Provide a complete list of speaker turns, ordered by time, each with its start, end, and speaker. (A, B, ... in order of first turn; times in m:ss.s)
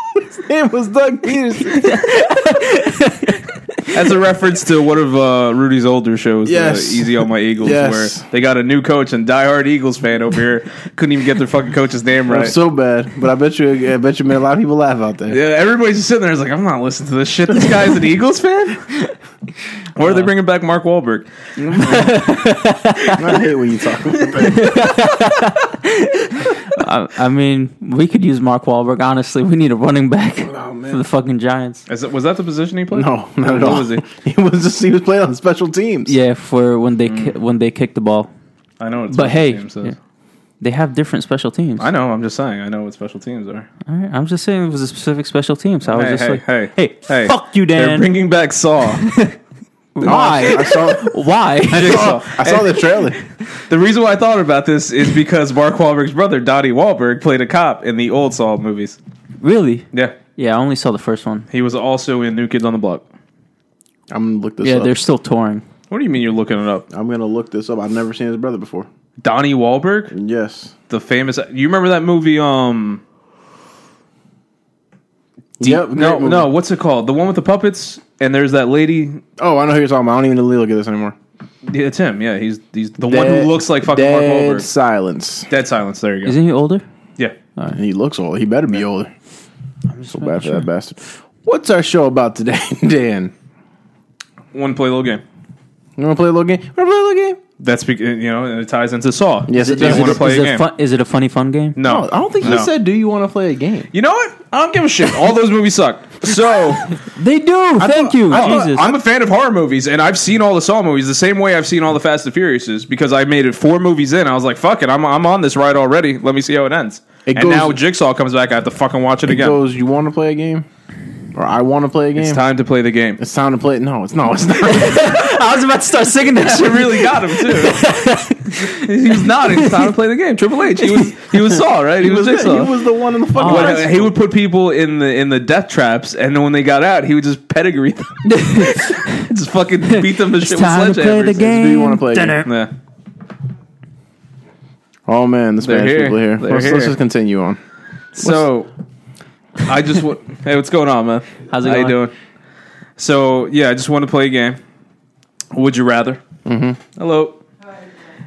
0:00.2-0:02.0 A
0:01.6-0:03.9 B
0:03.9-0:12.5 C
0:06.4-0:08.2 A
0:12.3-0:15.4 A
0:15.3-0:18.9 C
0:20.0-0:21.3 C
0:21.6-0:23.3 B
0:23.1-0:24.8 A
0:24.4-0:31.8 B
0:30.5-0:31.0 A
0:31.9-0:34.0 C
0:32.9-0:36.2 A
0:36.0-0:38.3 B
0:37.0-0:37.3 C
0:38.8-0:39.9 C
0:39.1-0:39.9 B
0:40.6-0:41.9 B
0:41.8-0:43.7 C
0:43.8-0:48.1 B
0:45.8-0:49.1 C
0:49.0-0:49.3 B
0:49.9-0:52.2 B
0:50.0-0:51.1 A
0:50.0-0:50.6 C
0:51.7-0:52.9 C
0:51.7-0:53.2 A
0:53.6-0:59.0 C
0:59.4-0:59.8 B
1:00.4-1:01.4 B
1:01.5-1:03.0 C
1:04.1-1:04.9 A
1:04.6-1:05.6 B
1:05.9-1:06.8 C
1:06.9-1:08.9 A
1:09.2-1:10.1 C
1:10.1-1:10.7 A
1:10.9-1:13.0 C
1:15.6-1:16.5 A
1:15.6-1:19.2 C
1:19.4-1:21.2 A
1:21.7-1:24.7 C
1:23.0-1:25.5 A
1:25.5-1:26.4 C
1:26.2-1:26.8 B
1:27.7-1:29.1 A
1:29.9-1:30.6 B
1:30.2-1:33.3 A
1:34.5-1:35.2 C
1:36.0-1:37.4 A
1:37.6-1:40.6 C
1:39.5-1:40.3 A
1:39.6-1:41.8 B
1:41.8-1:42.7 C
1:41.8-1:43.9 A
1:43.9-1:47.0 C
1:47.0-1:48.9 B
1:47.8-1:49.0 A
1:48.3-1:59.6 C
1:57.3-1:57.8 A
1:59.3-2:00.6 A
2:01.3-2:02.4 A
2:02.2-2:03.2 C
2:03.2-2:05.4 A
2:04.6-2:08.8 B
2:06.3-2:07.9 C
2:08.6-2:12.7 C
2:09.5-2:09.8 B
2:10.8-2:11.3 B
2:12.0-2:14.1 A
2:13.3-2:13.9 B
2:13.4-2:21.5 C
2:18.2-2:19.2 B
2:19.9-2:22.5 B
2:21.4-2:22.4 A
2:22.4-2:22.7 C
2:25.1-2:27.6 A
2:25.6-2:27.0 C
2:28.1-2:28.7 C
2:29.6-2:32.1 C
2:31.5-2:32.0 B
2:33.0-2:34.6 C
2:35.5-2:36.2 C
2:36.4-2:36.8 A
2:37.0-2:37.4 C